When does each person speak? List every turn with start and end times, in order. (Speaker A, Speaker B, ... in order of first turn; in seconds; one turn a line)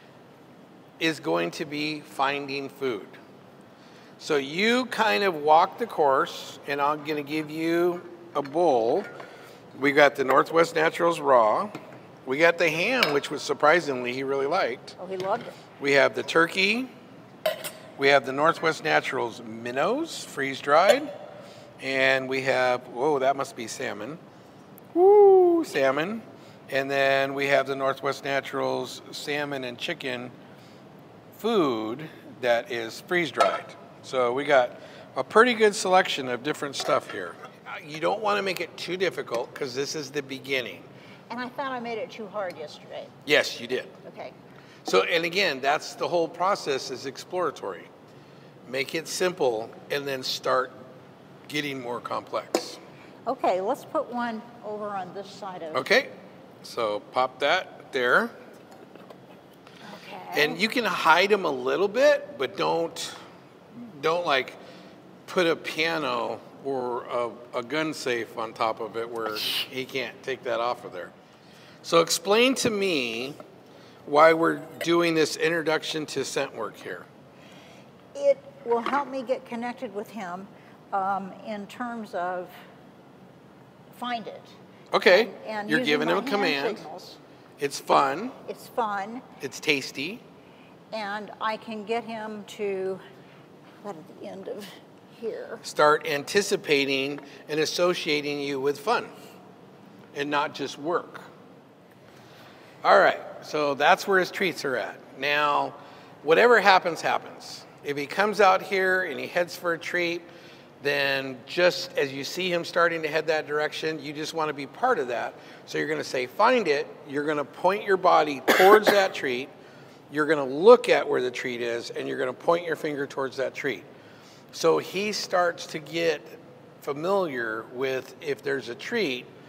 Speaker A: 1.0-3.2
Speaker A: 4.2-9.1
Speaker A: 9.8-11.7
Speaker A: 12.2-15.0
Speaker B: 15.0-15.5
Speaker A: 15.8-16.9
Speaker A: 18.0-21.1
Speaker A: 21.8-24.2
Speaker A: 24.9-30.3
Speaker A: 31.3-40.9
Speaker B: 41.3-43.1
Speaker A: 43.2-44.0
Speaker B: 44.0-44.3
Speaker A: 44.8-47.9
Speaker A: 48.6-50.7
Speaker A: 51.5-52.8
Speaker B: 53.3-55.8
Speaker A: 55.7-56.1
Speaker A: 56.6-58.3
Speaker B: 59.8-60.6
Speaker A: 60.3-63.1
Speaker A: 63.7-64.6
Speaker A: 65.2-71.1
Speaker A: 71.8-73.4
Speaker A: 74.0-77.1
Speaker B: 78.1-82.5
Speaker B: 83.9-87.2
Speaker A: 84.9-86.8
Speaker A: 87.6-88.3
Speaker B: 88.5-89.2
Speaker A: 89.4-90.2
Speaker B: 90.9-93.0
Speaker B: 93.8-95.6
Speaker A: 95.6-99.1
Speaker A: 100.1-101.3
Speaker A: 102.8-110.3
Speaker A: 110.8-119.5
Speaker A: 120.1-123.9
Speaker A: 124.5-129.3